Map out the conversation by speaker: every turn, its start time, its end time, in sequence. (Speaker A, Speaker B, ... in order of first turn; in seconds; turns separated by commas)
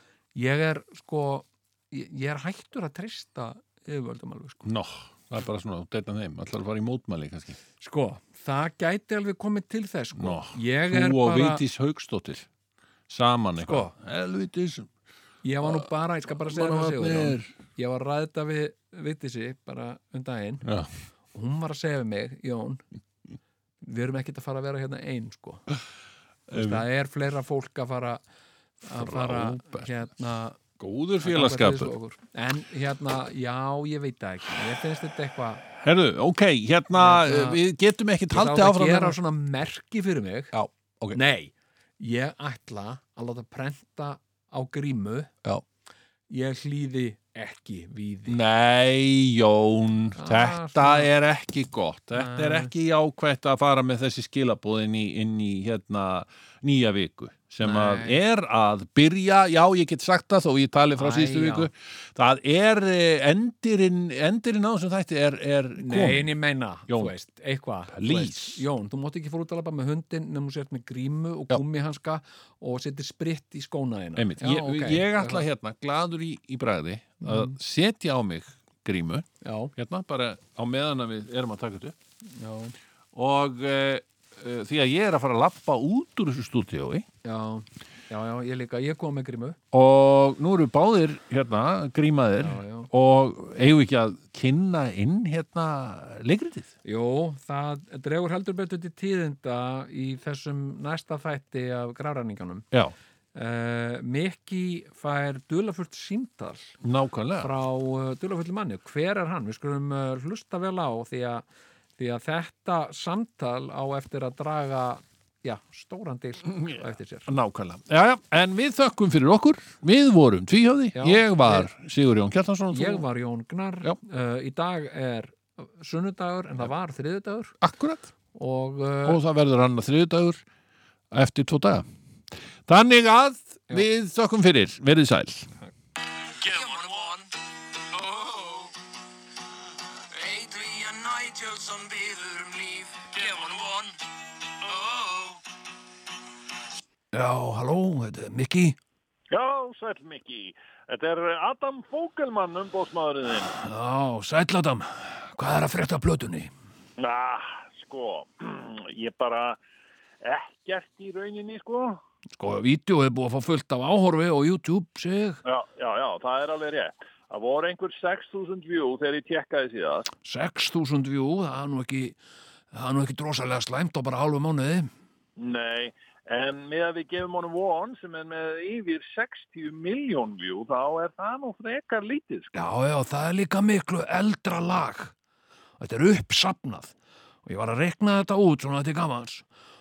Speaker A: 0.3-4.6, Speaker B: 4.6-7.6, Speaker A: 7.8-11.6, Speaker B: 10.2-12.5, Speaker B: 13.1-14.9, Speaker A: 13.6-13.9, Speaker A: 15.4-20.6, Speaker B: 15.6-17.5, Speaker B: 20.6-20.9, Speaker A: 21.3-22.8, Speaker A: 23.8-25.6, Speaker B: 26.5-26.8, Speaker A: 26.5-28.2, Speaker A: 28.8-30.6, Speaker B: 28.9-29.9, Speaker B: 30.8-31.9, Speaker A: 31.2-35.6, Speaker B: 35.7-39.2, Speaker A: 36.9-37.6, Speaker A: 38.3-40.5, Speaker B: 40.5-41.2, Speaker A: 41.1-45.4, Speaker A: 46.3-48.4, Speaker B: 48.3-66.3, Speaker A: 50.1-51.1, Speaker A: 52.1-52.7, Speaker A: 57.6-58.2, Speaker A: 61.0-61.7, Speaker A: 65.8-75.5, Speaker B: 67.9-68.6, Speaker B: 74.2-81.9, Speaker A: 77.2-77.5, Speaker A: 79.4-79.7, Speaker A: 82.3-82.7, Speaker B: 83.1-87.0, Speaker A: 87.2-89.6, Speaker B: 89.7-96.7, Speaker A: 92.4-92.9, Speaker A: 96.8-102.7, Speaker A: 103.3-106.8, Speaker B: 106.8-107.5, Speaker A: 107.4-111.5, Speaker A: 112.0-117.3, Speaker B: 117.3-123.0, Speaker A: 120.9-121.7, Speaker A: 122.7-127.6, Speaker B: 127.6-128.1, Speaker A: 128.3-129.2, Speaker B: 129.1-130.4, Speaker B: 131.1-131.8, Speaker B: 132.7-135.5, Speaker C: 140.2-142.7, Speaker D: 143.1-143.8, Speaker D: 144.7-145.2, Speaker A: 147.1-148.7, Speaker D: 149.3-153.5, Speaker A: 153.6-156.5, Speaker D: 157.0-159.6, Speaker D: 160.2-162.0, Speaker A: 162.4-165.4, Speaker D: 165.4-170.1, Speaker A: 170.2-172.2, Speaker A: 172.7-174.9, Speaker D: 175.4-182.7, Speaker A: 182.5-185.1, Speaker A: 185.8-186.9, Speaker A: 187.4-189.4